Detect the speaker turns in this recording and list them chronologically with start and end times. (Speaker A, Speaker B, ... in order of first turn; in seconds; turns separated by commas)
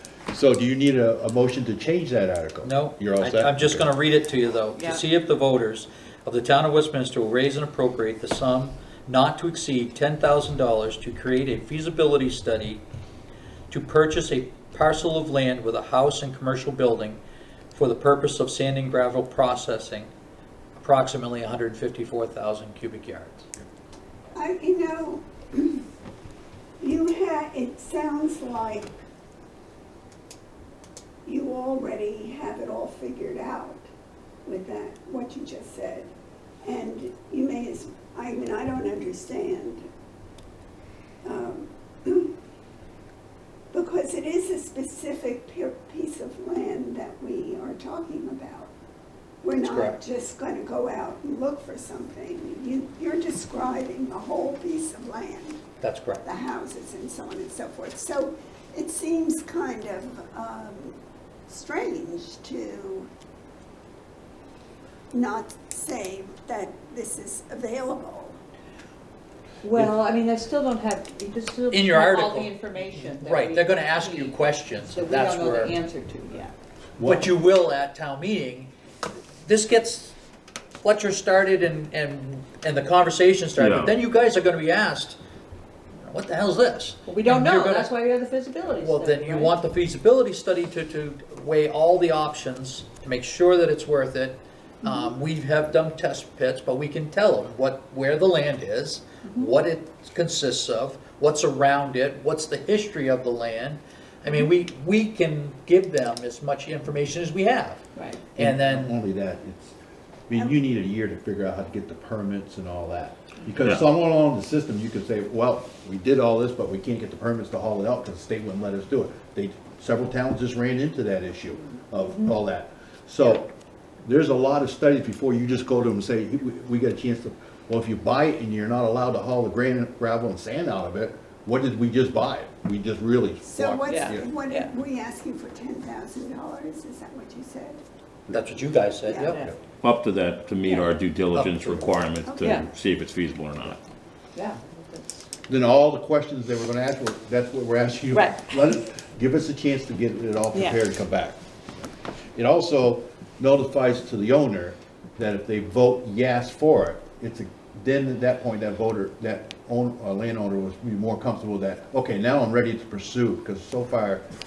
Speaker A: 0.3-3.9, Speaker B: 2.6-12.8, Speaker C: 4.8-5.0, Speaker B: 13.7-17.2, Speaker B: 17.7-20.1, Speaker B: 20.7-23.5, Speaker D: 24.3-25.8, Speaker D: 26.8-28.9, Speaker D: 31.2-33.9, Speaker D: 34.4-36.1, Speaker D: 36.6-39.9, Speaker D: 41.2-42.3, Speaker D: 43.7-48.7, Speaker D: 49.4-55.6, Speaker B: 49.6-50.0, Speaker B: 55.8-56.2, Speaker D: 56.2-61.0, Speaker D: 61.5-63.1, Speaker D: 65.1-68.4, Speaker C: 69.6-76.5, Speaker B: 71.7-75.8, Speaker A: 77.0-77.3, Speaker B: 77.0-78.7, Speaker B: 79.4-80.2, Speaker B: 80.8-85.2, Speaker E: 83.6-83.9, Speaker B: 86.0-87.9, Speaker C: 87.0-89.5, Speaker B: 88.8-109.0, Speaker C: 94.8-95.1, Speaker C: 99.2-99.5, Speaker C: 108.0-108.2, Speaker A: 108.3-109.7, Speaker A: 110.3-123.5, Speaker A: 124.0-134.3, Speaker D: 133.4-137.8, Speaker C: 133.8-134.7, Speaker B: 138.3-139.4, Speaker D: 139.0-139.4, Speaker E: 139.8-143.8, Speaker C: 140.6-140.9, Speaker B: 141.3-142.0, Speaker D: 142.2-142.7, Speaker C: 142.4-142.7, Speaker C: 144.3-145.2, Speaker A: 145.5-151.4, Speaker C: 148.1-148.6, Speaker C: 150.5-150.8, Speaker A: 152.3-164.2